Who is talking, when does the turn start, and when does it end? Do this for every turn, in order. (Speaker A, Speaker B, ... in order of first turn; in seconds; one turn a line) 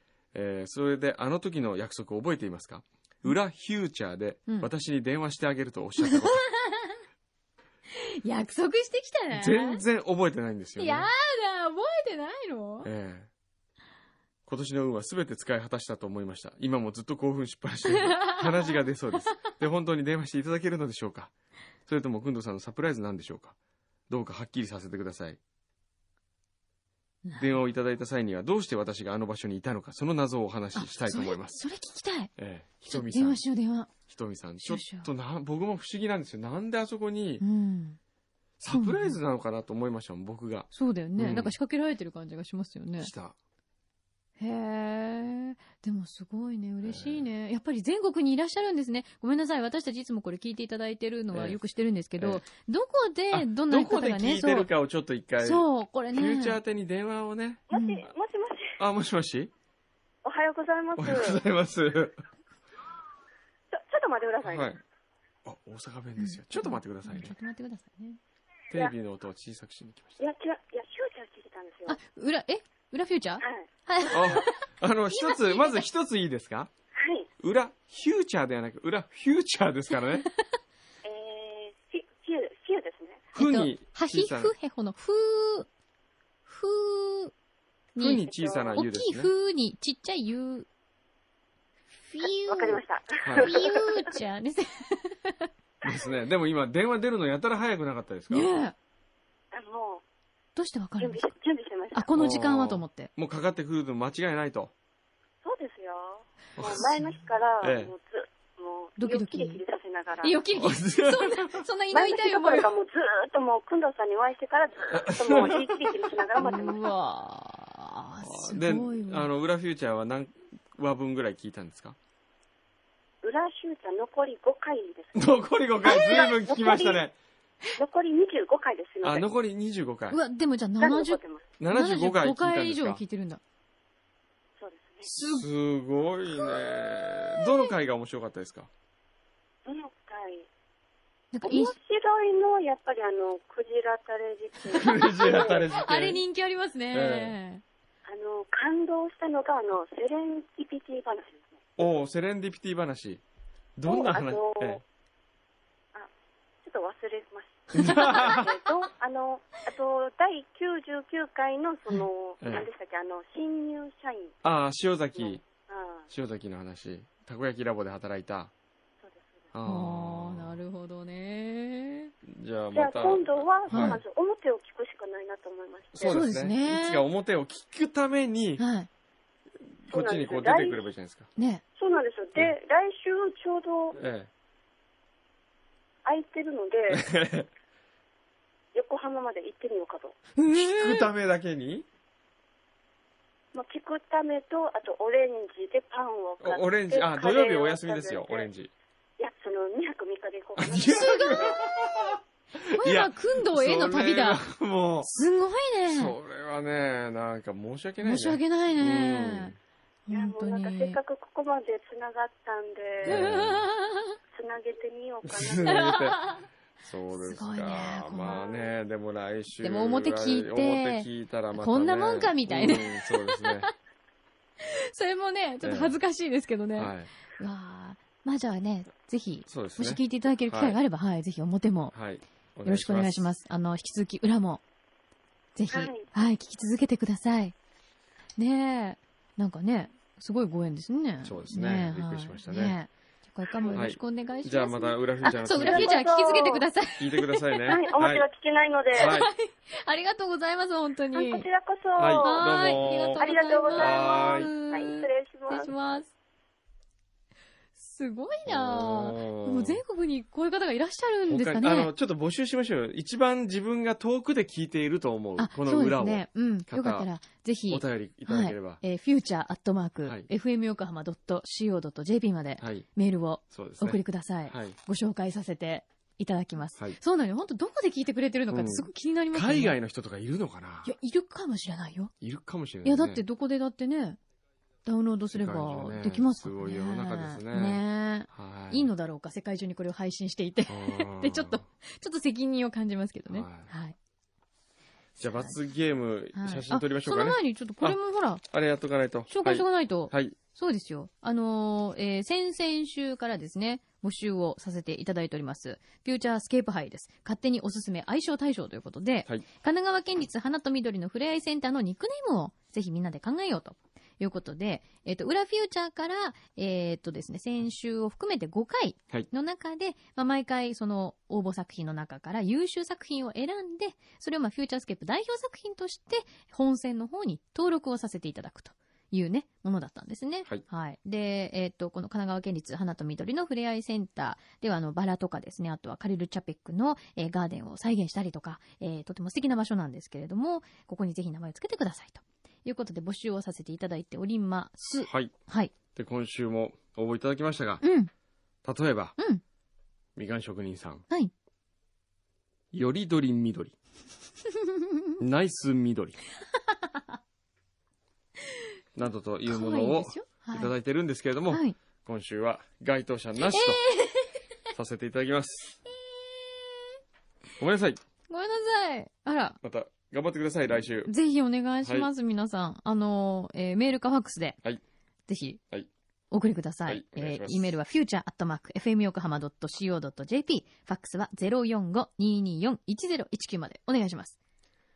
Speaker A: 0.3-6.5
Speaker B: 6.0-7.0
Speaker B: 7.9-9.8
Speaker A: 9.3-11.1
Speaker B: 10.8-12.9
Speaker A: 12.8-13.3
Speaker A: 14.4-21.3
Speaker B: 17.9-18.8
Speaker A: 21.9-23.6
Speaker A: 24.1-25.4
Speaker B: 27.2-27.6
Speaker A: 27.4-31.6
Speaker B: 30.8-32.3
Speaker A: 32.4-33.4
Speaker B: 32.9-33.9
Speaker A: 34.1-37.4
Speaker B: 34.6-35.1
Speaker B: 37.4-38.0
Speaker A: 38.6-41.5
Speaker B: 38.7-39.2
Speaker B: 40.7-43.1
Speaker A: 43.0-43.4
Speaker B: 44.4-54.7
Speaker A: 46.8-47.2
Speaker A: 51.3-51.6
Speaker A: 52.2-52.4
Speaker A: 53.3-57.6
Speaker B: 55.4-56.6
Speaker C: 57.7-58.8
Speaker B: 57.7-58.0
Speaker A: 58.8-59.5
Speaker C: 60.2-61.4
Speaker A: 61.0-62.2
Speaker C: 63.7-64.7
Speaker A: 64.4-64.8
Speaker A: 65.4-67.3
Speaker B: 66.2-68.2
Speaker A: 68.7-70.2
Speaker C: 70.2-72.0
Speaker B: 71.9-75.8
Speaker C: 73.4-73.7
Speaker A: 74.1-76.7
Speaker C: 77.0-77.3
Speaker A: 77.4-80.3
Speaker C: 81.0-83.3
Speaker A: 83.3-84.5
Speaker B: 83.3-85.7
Speaker B: 86.5-87.3
Speaker B: 87.9-88.2
Speaker A: 88.0-89.3
Speaker C: 88.2-88.8
Speaker B: 88.8-90.7
Speaker B: 92.1-92.8
Speaker C: 92.2-94.2
Speaker A: 93.2-93.6
Speaker B: 93.3-95.5
Speaker A: 95.8-98.5
Speaker B: 98.3-98.8
Speaker C: 99.5-100.0
Speaker B: 100.6-101.3
Speaker C: 101.0-102.1
Speaker B: 101.9-103.1
Speaker A: 102.1-104.7
Speaker C: 105.4-110.4
Speaker A: 106.6-106.8
Speaker A: 107.6-107.9
Speaker B: 109.0-109.6
Speaker B: 110.2-112.7
Speaker A: 110.6-111.5
Speaker C: 111.9-116.9
Speaker A: 114.9-115.7
Speaker B: 116.4-119.3
Speaker A: 118.2-122.0
Speaker C: 123.2-127.1
Speaker A: 125.2-127.2
Speaker B: 125.8-126.2
Speaker C: 127.8-129.3
Speaker A: 129.0-130.2
Speaker B: 130.1-133.4
Speaker C: 130.8-131.4
Speaker A: 131.6-133.0
Speaker C: 134.6-135.1
Speaker B: 135.1-135.5
Speaker A: 135.2-138.7
Speaker B: 136.4-137.7
Speaker C: 139.7-140.5
Speaker B: 141.3-141.7
Speaker C: 141.4-145.7
Speaker A: 144.7-146.2
Speaker B: 145.0-147.6
Speaker A: 146.9-147.3
Speaker C: 148.1-151.6
Speaker A: 151.8-153.2
Speaker A: 153.8-154.8
Speaker C: 153.9-154.8
Speaker C: 156.6-164.3
Speaker A: 157.7-158.5
Speaker B: 157.8-158.3
Speaker A: 162.4-162.7
Speaker A: 164.4-165.4
Speaker C: 165.2-166.1
Speaker A: 166.1-168.5
Speaker C: 169.0-169.5
Speaker A: 169.5-170.6
Speaker B: 169.7-172.1
Speaker A: 172.2-174.0
Speaker C: 172.7-176.2
Speaker B: 173.7-174.0
Speaker A: 175.9-178.7
Speaker B: 176.1-177.0
Speaker B: 178.6-178.9
Speaker A: 179.8-181.3
Speaker C: 179.9-180.9
Speaker B: 181.3-181.6
Speaker C: 181.7-184.0
Speaker A: 183.9-184.3
Speaker C: 186.1-187.1
Speaker A: 186.9-187.5
Speaker C: 188.7-190.2
Speaker A: 190.4-191.8
Speaker B: 190.5-191.1
Speaker C: 193.5-198.5
Speaker A: 196.4-198.7
Speaker C: 199.2-201.7
Speaker A: 200.6-205.1
Speaker B: 200.8-201.6
Speaker B: 202.7-204.4
Speaker B: 205.0-206.2
Speaker A: 205.8-209.6
Speaker B: 208.0-209.5
Speaker B: 210.1-211.0
Speaker C: 210.1-213.3
Speaker A: 213.0-213.7
Speaker B: 213.1-214.2
Speaker C: 214.3-216.0
Speaker A: 215.2-216.2
Speaker B: 215.7-216.5
Speaker A: 216.8-223.7
Speaker B: 217.2-218.6
Speaker B: 219.6-223.5
Speaker B: 224.6-231.9
Speaker A: 225.6-226.0
Speaker A: 226.7-227.1
Speaker A: 229.5-230.8
Speaker A: 231.9-233.3
Speaker B: 232.6-234.6
Speaker B: 235.6-237.6
Speaker C: 235.7-236.1
Speaker B: 238.4-247.9
Speaker A: 241.2-242.8
Speaker C: 243.5-243.8
Speaker A: 243.7-246.0
Speaker C: 245.6-246.6
Speaker A: 247.0-248.2
Speaker C: 247.7-249.1
Speaker A: 248.9-249.3
Speaker B: 248.9-251.5
Speaker C: 251.1-255.7
Speaker A: 252.0-253.2
Speaker B: 252.2-256.1
Speaker A: 253.8-254.5
Speaker B: 257.7-261.9
Speaker A: 258.4-259.8
Speaker A: 261.3-267.1
Speaker B: 265.4-279.8
Speaker A: 267.7-268.8
Speaker A: 270.0-270.3
Speaker A: 272.6-272.9
Speaker A: 273.5-274.8
Speaker A: 278.5-280.9
Speaker B: 280.8-282.1
Speaker A: 282.2-283.2
Speaker B: 282.8-284.2
Speaker B: 284.8-293.9
Speaker A: 285.3-288.9
Speaker A: 290.7-291.6
Speaker A: 293.3-293.7
Speaker A: 295.2-298.0
Speaker B: 296.3-298.4
Speaker A: 298.5-300.4
Speaker B: 299.3-345.7
Speaker A: 345.1-345.3
Speaker A: 345.9-347.8
Speaker B: 347.8-348.1
Speaker A: 348.6-349.2
Speaker A: 350.2-351.1
Speaker A: 352.7-353.7
Speaker A: 355.2-356.2
Speaker A: 358.9-363.8
Speaker B: 359.4-360.7
Speaker B: 361.5-361.8
Speaker B: 363.4-364.4
Speaker A: 364.7-365.8
Speaker B: 366.4-366.6
Speaker A: 367.6-368.0
Speaker B: 368.3-369.6
Speaker A: 369.6-371.1
Speaker B: 371.1-374.6
Speaker A: 371.8-372.1
Speaker B: 375.3-375.6
Speaker B: 376.3-384.4
Speaker A: 376.9-377.7